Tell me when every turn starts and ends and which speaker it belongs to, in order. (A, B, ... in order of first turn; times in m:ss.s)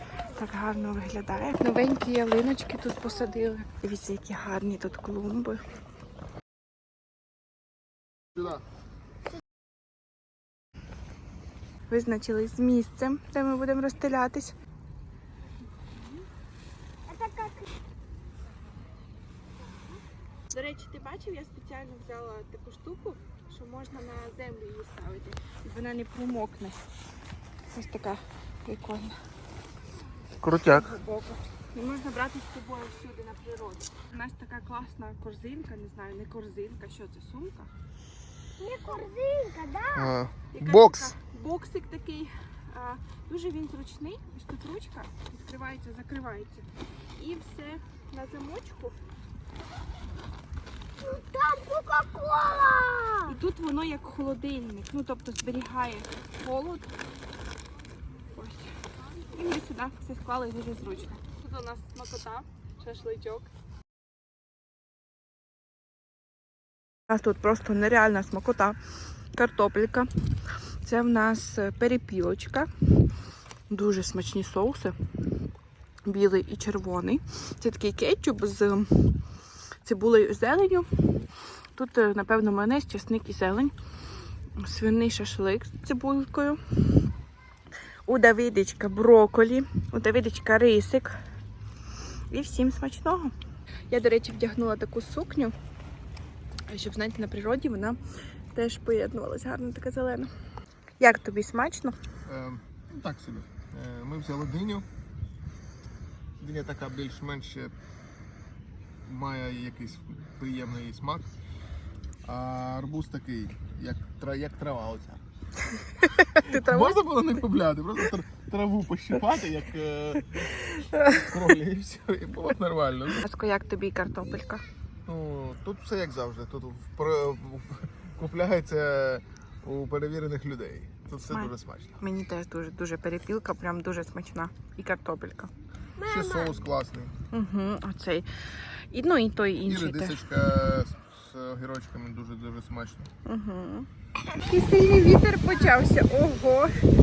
0:00.3-0:05.6 A
0:11.9-0:14.5 A
0:17.1-0:17.6 B
0:20.5-0:26.8 A
0:27.7-0:29.1 A
0:30.4-0:30.9 C
0:30.5-0:37.7 A
0:38.6-0:40.1 B
0:39.9-0:41.1 C
0:40.5-0:49.0 A
0:51.0-0:53.2 B
0:53.2-0:56.9 A
0:58.3-0:58.7 A
0:59.3-1:03.5 A
1:07.1-1:08.8 A
1:09.3-1:10.1 A
1:10.8-1:12.7 A
1:13.7-1:14.9 A
1:16.0-1:19.2 A
1:19.8-1:20.9 A
1:21.7-1:23.7 A
1:24.6-1:26.6 A
1:28.0-1:31.1 A
1:32.3-1:33.3 A
1:33.9-1:35.5 A
1:36.7-1:38.0 A
1:38.5-1:40.3 A
1:41.0-1:42.0 A
1:42.2-1:44.8 C
1:46.4-1:47.7 C
1:49.0-1:51.3 C
1:52.2-1:55.2 C
1:56.0-1:57.0 A
1:56.2-2:00.4 C
2:00.8-2:01.3 A
2:01.1-2:03.2 C
2:03.2-2:04.6 A
2:05.1-2:12.0 C
2:11.3-2:15.5 A
2:16.0-2:16.5 B
2:16.0-2:17.1 C
2:17.3-2:18.3 A
2:18.9-2:20.2 A
2:19.6-2:23.1 C
2:23.2-2:26.7 A